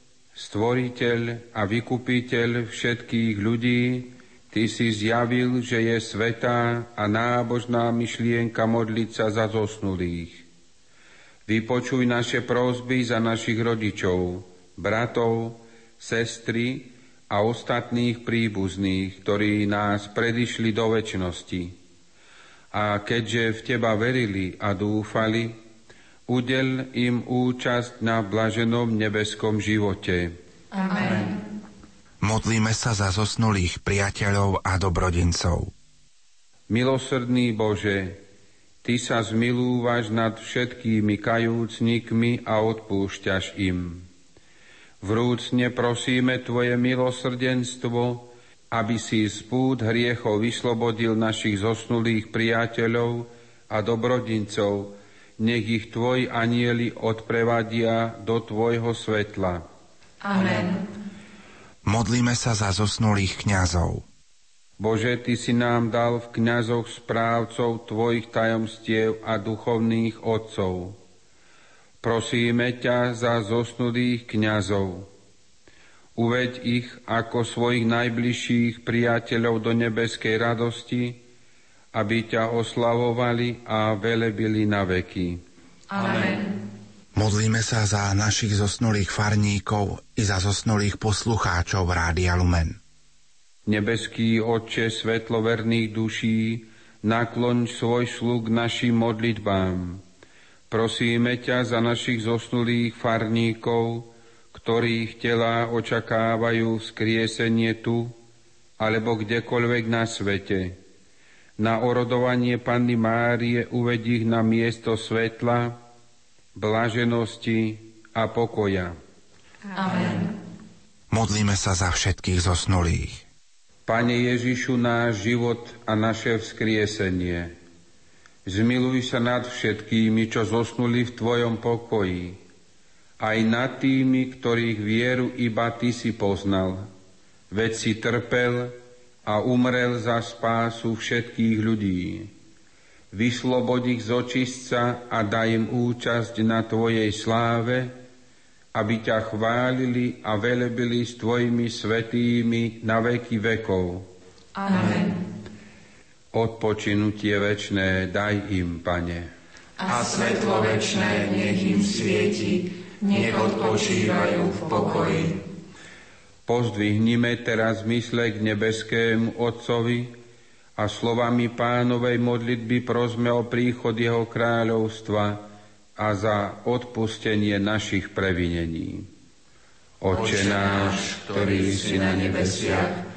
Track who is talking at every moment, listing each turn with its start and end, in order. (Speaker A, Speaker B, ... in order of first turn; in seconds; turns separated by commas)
Speaker A: 0.3-10.4, Speaker A: 11.5-21.8, Speaker A: 22.7-25.6, Speaker A: 26.3-30.4, Speaker B: 30.8-31.4, Speaker C: 32.2-35.7, Speaker A: 36.7-38.2, Speaker A: 38.8-44.0, Speaker A: 45.0-59.6, Speaker B: 60.3-60.8, Speaker C: 61.8-64.1, Speaker A: 64.8-71.0, Speaker A: 72.0-75.1, Speaker A: 76.2-81.2, Speaker A: 81.9-85.4, Speaker B: 85.9-86.5, Speaker C: 87.1-92.8, Speaker A: 93.7-100.0, Speaker A: 100.7-108.1, Speaker A: 108.8-110.8, Speaker A: 111.6-115.8, Speaker A: 116.5-118.9, Speaker B: 119.8-120.3, Speaker C: 121.1-123.3, Speaker A: 123.8-127.5, Speaker A: 128.4-132.4, Speaker A: 133.2-136.9, Speaker A: 137.5-142.3, Speaker A: 143.1-147.9, Speaker A: 148.7-154.1, Speaker B: 154.6-155.2, Speaker A: 156.3-159.3, Speaker B: 159.8-165.4, Speaker A: 166.4-170.1, Speaker A: 170.8-175.4, Speaker A: 176.0-179.1, Speaker A: 180.0-182.9, Speaker B: 180.4-182.9